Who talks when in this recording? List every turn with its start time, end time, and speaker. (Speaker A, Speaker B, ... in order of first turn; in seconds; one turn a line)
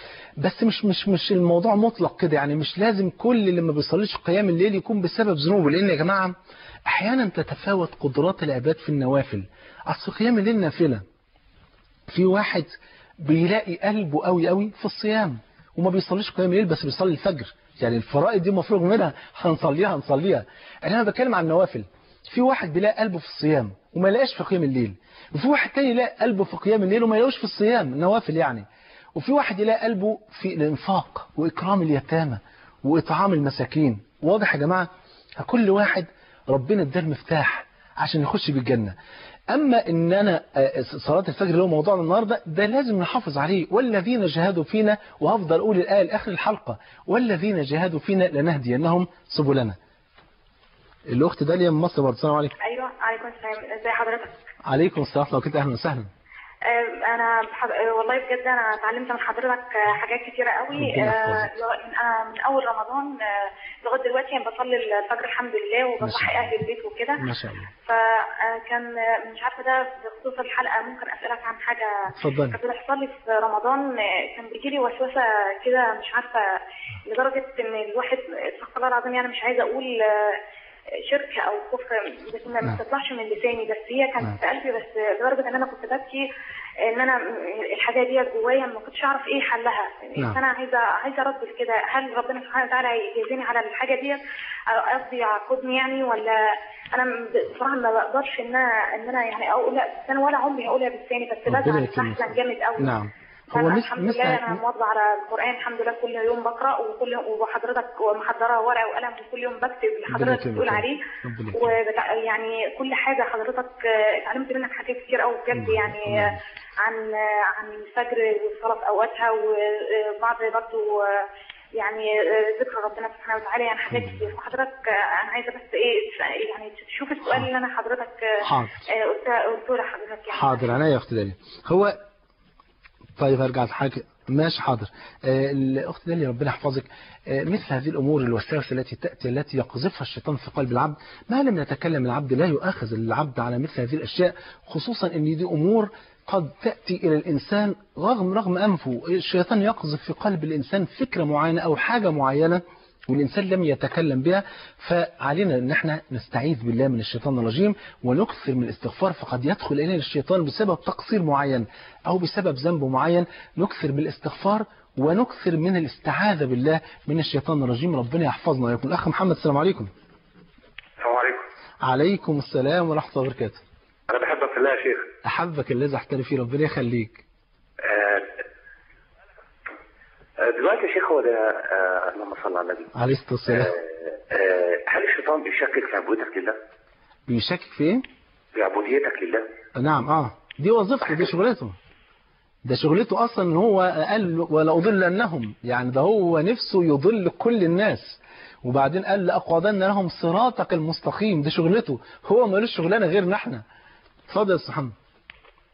Speaker A: 0.4-6.3
Speaker A: 6.9-11.0
Speaker A: 12.1-39.0
Speaker A: 39.5-49.8
Speaker A: 51.1-52.5
Speaker B: 52.6-54.3
Speaker A: 54.7-56.1
Speaker B: 56.7-67.2
Speaker A: 60.8-61.5
Speaker A: 66.0-66.5
Speaker A: 67.2-67.7
Speaker B: 67.8-72.0
Speaker A: 72.1-72.6
Speaker B: 72.5-76.4
Speaker B: 77.1-80.4
Speaker B: 81.1-86.2
Speaker B: 86.9-96.4
Speaker B: 96.9-102.9
Speaker A: 101.5-104.6
Speaker B: 103.5-111.0
Speaker A: 110.1-111.8
Speaker B: 111.5-128.3
Speaker A: 115.5-116.4
Speaker A: 123.9-124.2
Speaker A: 128.4-128.8
Speaker B: 129.0-130.7
Speaker A: 130.3-132.0
Speaker A: 133.2-169.9
Speaker C: 171.0-171.4
Speaker A: 171.8-173.6
Speaker C: 174.1-175.1
Speaker A: 175.2-177.2
Speaker C: 177.8-178.4
Speaker C: 180.4-182.9
Speaker A: 182.9-183.7
Speaker C: 183.5-186.6
Speaker A: 187.3-188.1
Speaker C: 188.6-189.5
Speaker A: 189.8-191.8
Speaker A: 192.7-203.6
Speaker A: 204.3-204.9